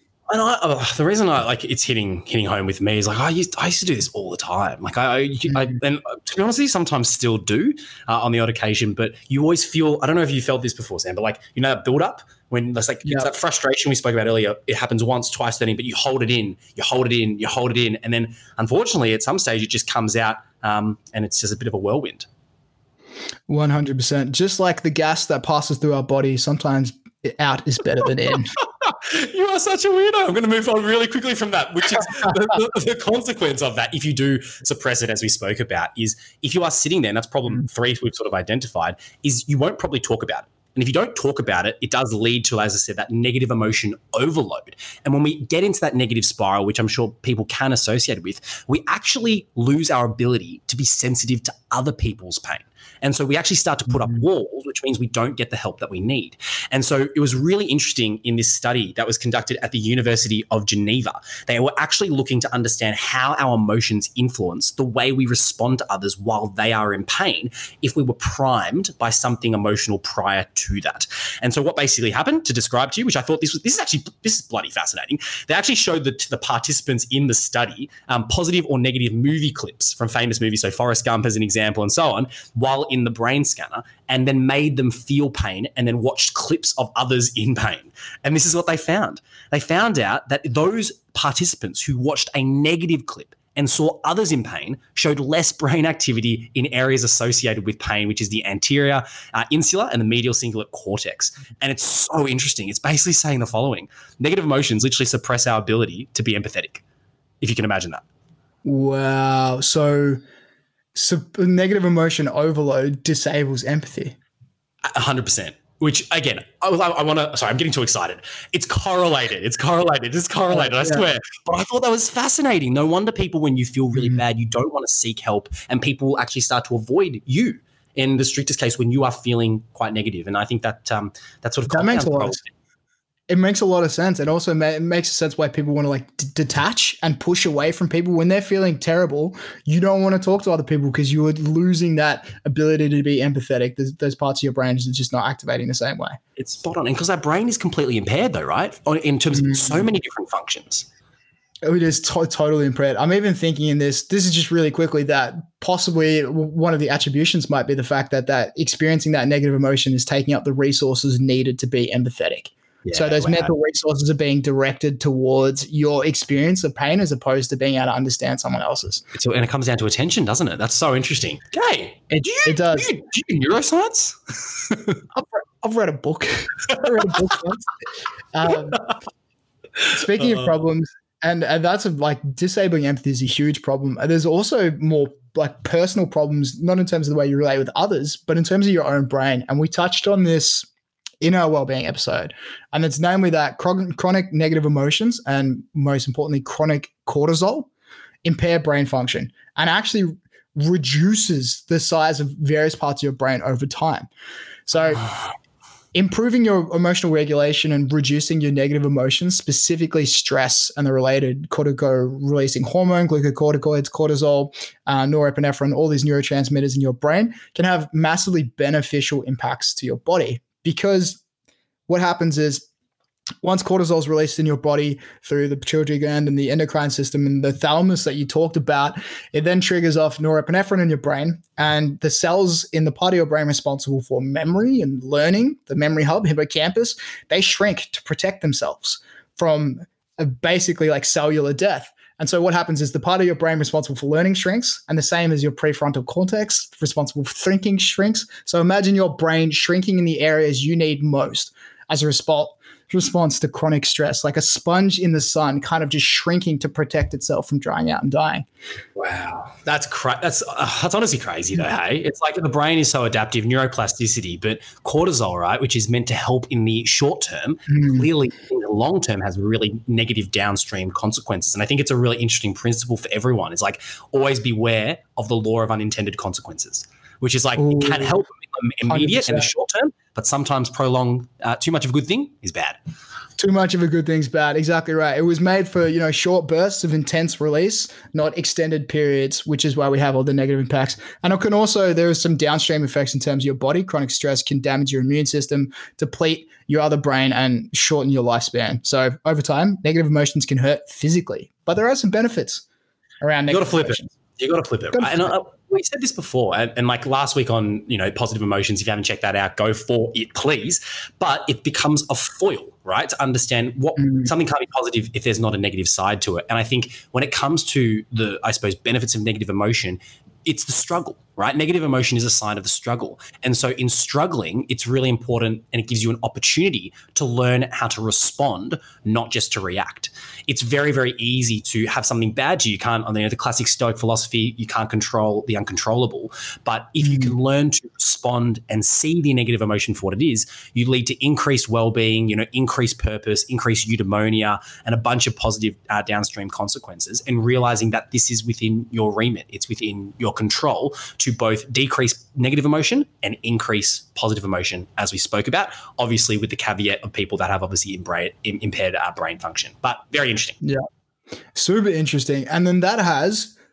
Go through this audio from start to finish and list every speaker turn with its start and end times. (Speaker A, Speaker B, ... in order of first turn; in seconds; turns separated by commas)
Speaker A: 0.3-22.3, Speaker B: 23.5-28.6, Speaker A: 28.6-106.8, Speaker A: 107.4-108.0, Speaker B: 108.7-110.2, Speaker B: 111.0-114.2, Speaker A: 114.8-132.5, Speaker B: 120.5-121.0, Speaker B: 131.7-132.4, Speaker B: 133.3-146.2, Speaker A: 146.4-150.9, Speaker B: 149.3-149.8, Speaker B: 151.7-169.0, Speaker A: 162.8-163.5, Speaker A: 169.1-175.0, Speaker B: 172.1-172.9, Speaker B: 175.1-177.7, Speaker B: 178.3-178.8, Speaker B: 179.9-190.7, Speaker B: 191.2-197.7, Speaker B: 198.2-204.1, Speaker B: 204.7-205.1, Speaker B: 205.9-221.2, Speaker B: 221.9-222.7, Speaker B: 223.4-258.5, Speaker A: 259.0-282.8, Speaker B: 267.7-268.1, Speaker B: 277.6-278.2, Speaker B: 278.9-279.5, Speaker B: 283.4-302.6, Speaker B: 303.2-304.1, Speaker A: 303.5-360.6, Speaker B: 304.9-305.3, Speaker B: 314.0-314.3, Speaker B: 337.0-337.3, Speaker B: 361.6-363.6